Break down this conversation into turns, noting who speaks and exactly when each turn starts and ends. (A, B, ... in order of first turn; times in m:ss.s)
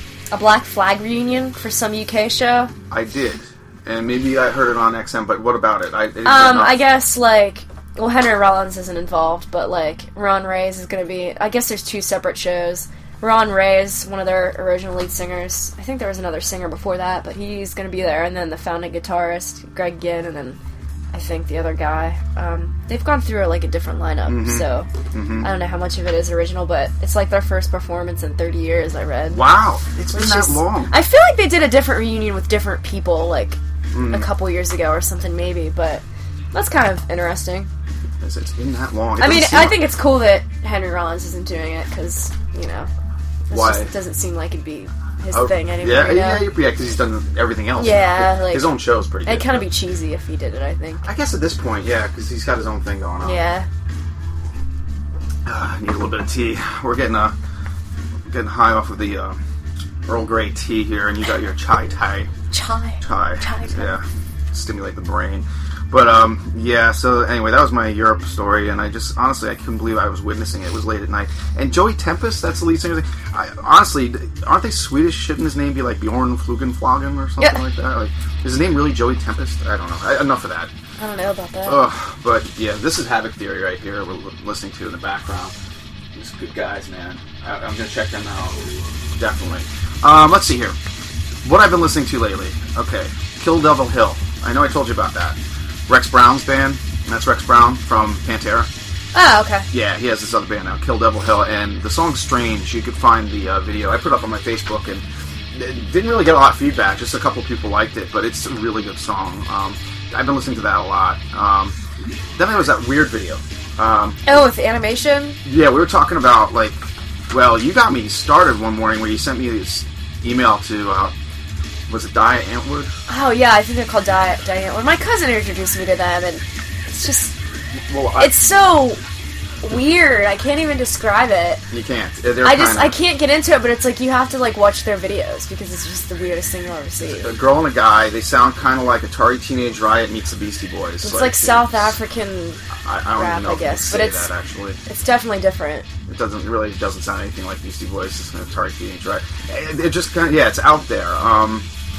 0:00.3-0:02.7 A
0:02.9-0:06.8 B
0:06.2-0:20.6 A
0:21.1-0:24.9 A
0:24.3-0:25.5 B
0:25.4-0:29.4 A
0:29.3-0:31.0 B
0:30.1-0:37.7 A
0:33.9-0:34.3 B
0:38.2-0:39.8 B
0:39.2-0:42.9 A
0:43.5-0:46.5 A
0:43.5-0:43.9 B
0:45.3-0:49.7 B
0:47.8-0:51.0 A
0:51.0-0:53.4 B
0:53.2-0:53.7 A
0:55.4-0:57.4 B
0:58.2-0:59.4 B
1:00.0-1:02.3 B
1:02.5-1:03.9 A
1:03.0-1:20.7 B
1:21.0-1:21.8 A
1:21.6-1:25.5 B
1:26.1-1:30.8 B
1:31.4-1:38.7 B
1:39.1-1:39.7 A
1:39.7-1:51.8 B
1:52.3-1:54.2 B
1:54.2-1:55.4 A
1:55.4-2:01.1 B
2:01.9-2:02.9 B
2:03.1-2:07.3 A
2:07.9-2:08.3 B
2:08.2-2:09.0 A
2:09.6-2:11.6 A
2:11.7-2:13.0 B
2:12.4-2:17.3 A
2:17.1-2:22.0 B
2:21.0-2:22.6 A
2:22.8-2:24.8 B
2:23.1-2:24.3 A
2:24.8-2:25.9 A
2:26.0-2:31.7 B